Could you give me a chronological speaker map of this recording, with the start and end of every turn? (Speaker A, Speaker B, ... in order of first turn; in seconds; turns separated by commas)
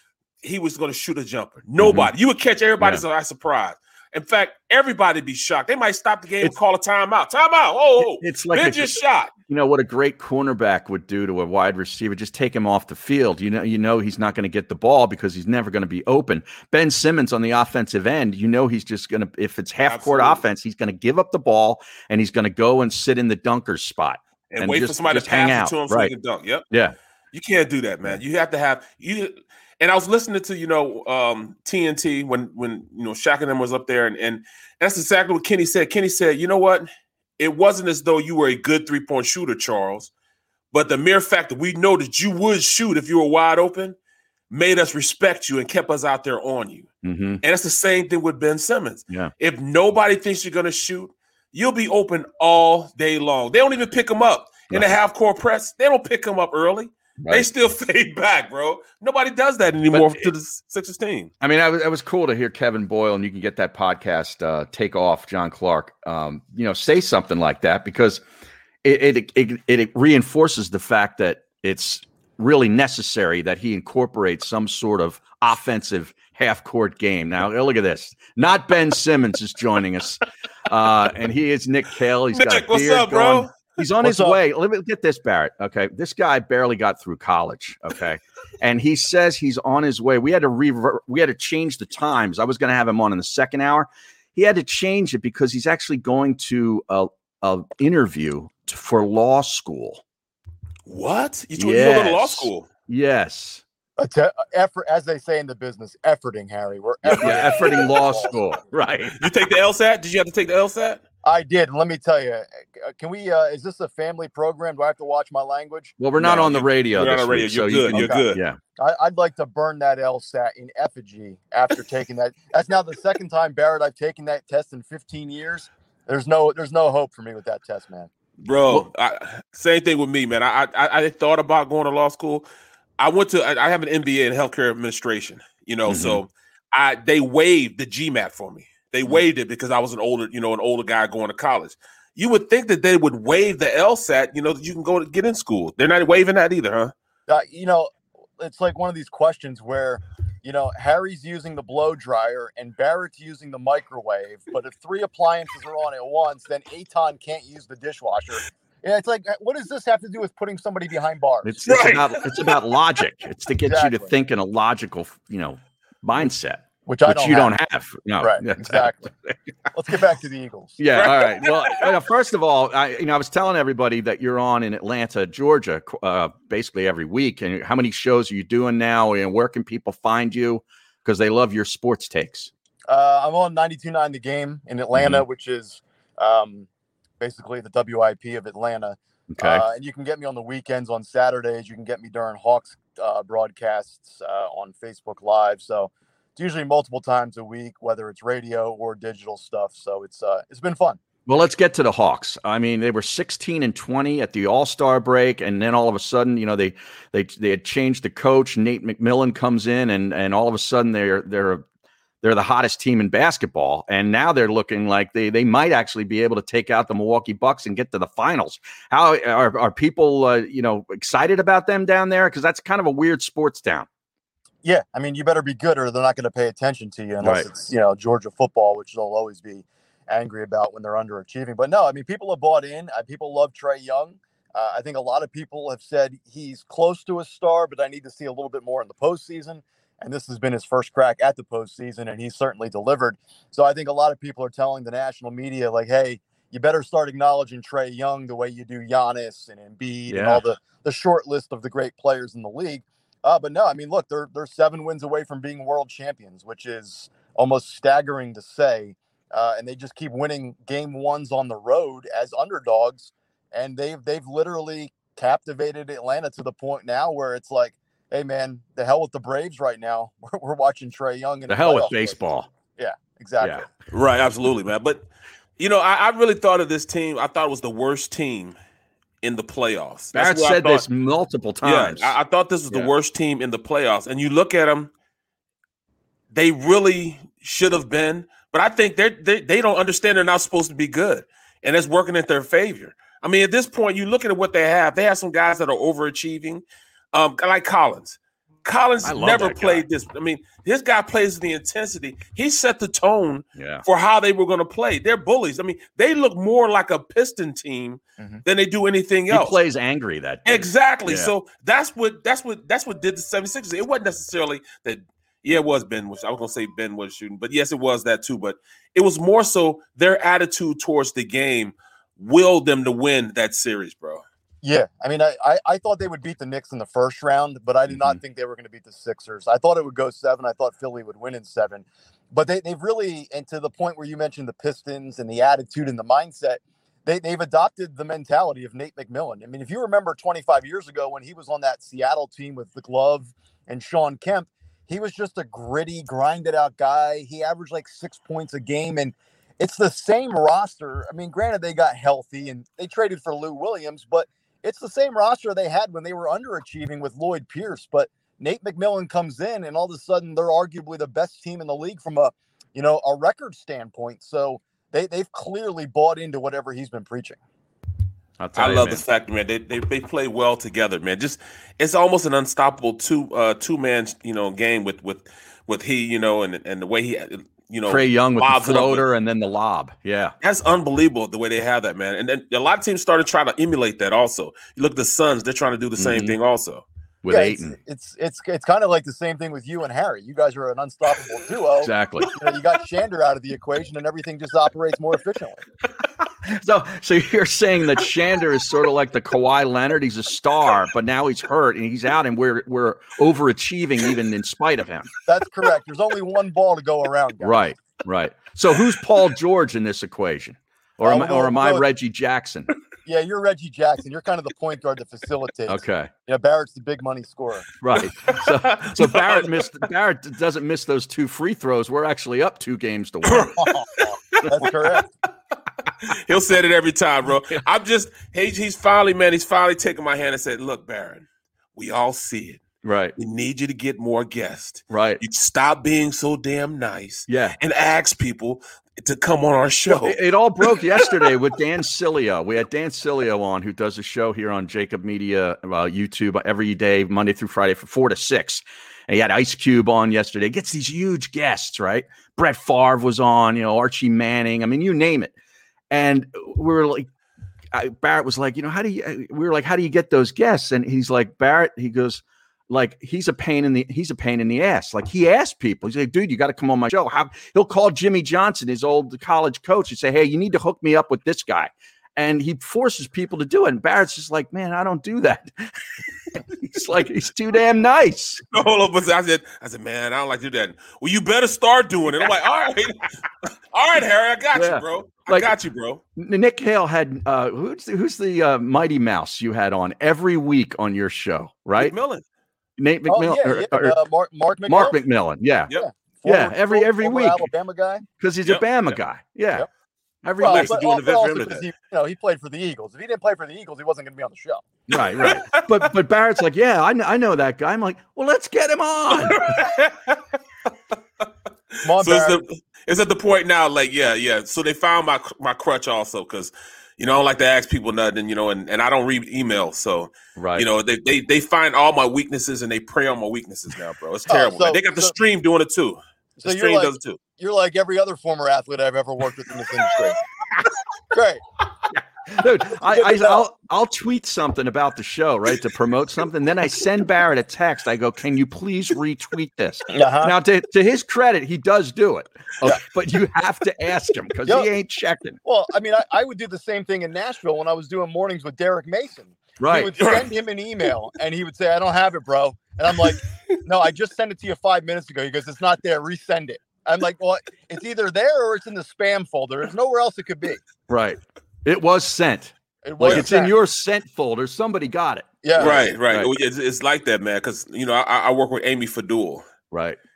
Speaker A: 0.4-9.3, Speaker B: 1.8-2.1, Speaker B: 8.0-8.9, Speaker B: 9.5-26.1, Speaker A: 19.9-20.4, Speaker A: 24.5-26.6, Speaker A: 27.3-36.9, Speaker A: 37.4-40.1, Speaker A: 40.7-44.0, Speaker A: 44.5-46.9, Speaker B: 47.0-47.4, Speaker A: 47.4-61.3, Speaker B: 57.2-57.5, Speaker B: 59.9-60.3, Speaker B: 61.4-68.2, Speaker B: 68.8-100.0, Speaker A: 82.3-83.5, Speaker C: 84.0-84.4, Speaker A: 100.9-102.7, Speaker B: 101.6-103.6, Speaker C: 104.0-108.4, Speaker A: 107.1-107.8, Speaker B: 107.1-109.2, Speaker A: 109.2-111.0, Speaker C: 111.2-116.0, Speaker B: 116.0-118.6, Speaker A: 116.2-118.4, Speaker C: 117.9-118.2, Speaker C: 118.8-128.1, Speaker A: 128.4-132.4, Speaker A: 133.0-146.9, Speaker B: 135.9-136.2, Speaker C: 147.3-161.7, Speaker B: 161.4-169.3, Speaker A: 161.7-162.3, Speaker C: 163.7-164.1, Speaker C: 166.8-167.5, Speaker C: 168.2-169.1, Speaker C: 169.7-170.8, Speaker B: 170.8-182.5, Speaker A: 170.9-171.9, Speaker C: 182.9-186.7, Speaker B: 184.9-185.2, Speaker C: 187.2-201.0, Speaker B: 189.3-189.6, Speaker B: 201.2-211.6, Speaker B: 212.2-223.9, Speaker C: 224.6-272.1, Speaker B: 227.2-227.5, Speaker B: 250.1-250.4, Speaker B: 271.5-272.5, Speaker C: 272.8-273.7, Speaker B: 273.4-273.6, Speaker A: 273.9-275.1, Speaker A: 275.6-278.6, Speaker A: 279.2-280.8, Speaker B: 280.1-282.1, Speaker A: 281.6-284.9, Speaker A: 286.3-309.6, Speaker B: 299.0-299.8, Speaker B: 303.6-303.8, Speaker B: 309.3-311.3, Speaker A: 310.4-324.2, Speaker C: 324.6-367.4, Speaker B: 327.9-328.2, Speaker B: 368.4-369.0, Speaker A: 368.6-379.0, Speaker B: 377.9-380.3, Speaker A: 380.4-386.8, Speaker B: 386.0-386.4, Speaker B: 387.2-387.8, Speaker C: 387.3-395.6, Speaker B: 391.8-392.3, Speaker B: 396.5-405.1, Speaker C: 405.2-407.6, Speaker B: 407.4-412.7, Speaker C: 411.0-411.9, Speaker C: 413.0-417.7, Speaker B: 415.7-416.1, Speaker B: 417.8-423.6, Speaker A: 418.0-419.5, Speaker A: 423.2-424.7, Speaker C: 423.6-423.9, Speaker C: 424.4-425.1, Speaker A: 426.1-432.6, Speaker B: 432.8-433.1, Speaker A: 433.2-440.2, Speaker B: 434.9-435.2, Speaker B: 437.3-437.6, Speaker B: 439.9-455.3, Speaker B: 455.9-457.1, Speaker B: 457.7-475.7, Speaker B: 476.4-478.4, Speaker A: 478.5-483.0, Speaker A: 483.7-486.0, Speaker B: 484.5-485.5, Speaker B: 486.2-491.9, Speaker A: 491.8-492.2, Speaker B: 492.8-494.0, Speaker C: 493.1-494.9, Speaker B: 494.6-495.7, Speaker C: 495.7-498.0, Speaker B: 496.2-497.5, Speaker B: 498.2-499.7, Speaker A: 498.4-498.9, Speaker B: 500.2-501.0, Speaker C: 500.4-504.6, Speaker A: 500.4-501.7, Speaker B: 504.9-509.6, Speaker A: 504.9-505.9, Speaker A: 509.2-510.2, Speaker C: 511.8-512.4, Speaker A: 511.9-527.2, Speaker B: 520.4-520.7, Speaker C: 524.3-525.1, Speaker C: 526.4-530.2, Speaker C: 531.1-531.4, Speaker B: 531.9-545.4, Speaker C: 532.9-533.4, Speaker C: 539.9-540.3, Speaker C: 545.4-560.6, Speaker B: 549.6-549.9, Speaker A: 550.0-550.3, Speaker B: 560.9-566.3, Speaker C: 562.8-563.5, Speaker A: 563.0-563.3, Speaker C: 565.4-565.9, Speaker A: 565.6-569.4, Speaker B: 569.7-570.0